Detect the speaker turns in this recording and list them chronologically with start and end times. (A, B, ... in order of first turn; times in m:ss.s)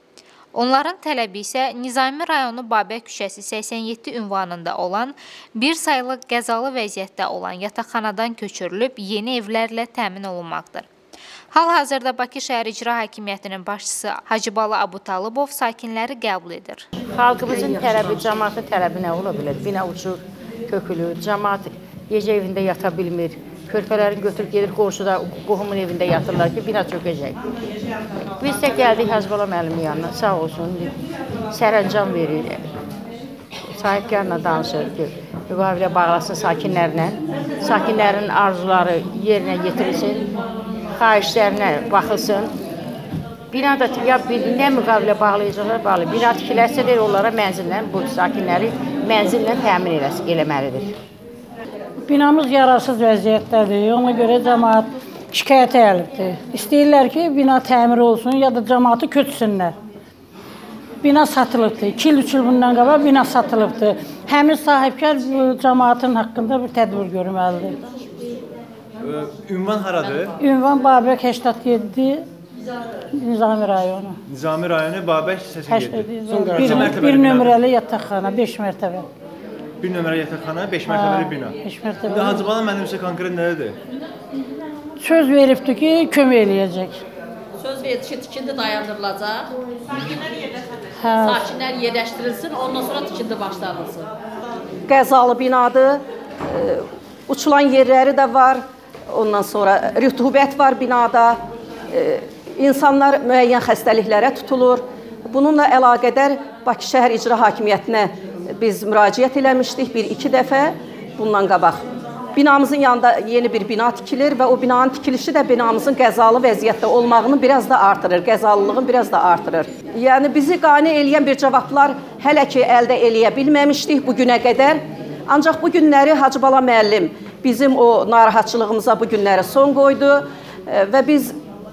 0:00.6-0:10.9 A
0:11.5-0:16.8 A
0:17.1-0:27.4 B
0:28.4-0:30.9 B
0:31.5-0:32.6 B
0:33.7-0:40.3 B
0:40.9-0:42.5 B
0:43.5-0:51.0 B
0:52.0-0:59.8 C
1:01.0-1:07.8 C
1:09.0-1:10.3 D
1:10.4-1:12.2 C
1:13.1-1:14.2 C
1:14.3-1:17.6 D
1:15.7-1:19.1 C
1:19.8-1:21.6 D
1:20.9-1:22.4 C
1:22.1-1:23.8 D
1:25.0-1:27.0 C
1:27.6-1:29.5 E
1:31.0-1:31.5 C
1:31.2-1:34.1 E
1:34.9-1:41.4 F
1:41.9-1:51.8 F
1:52.4-2:11.4 F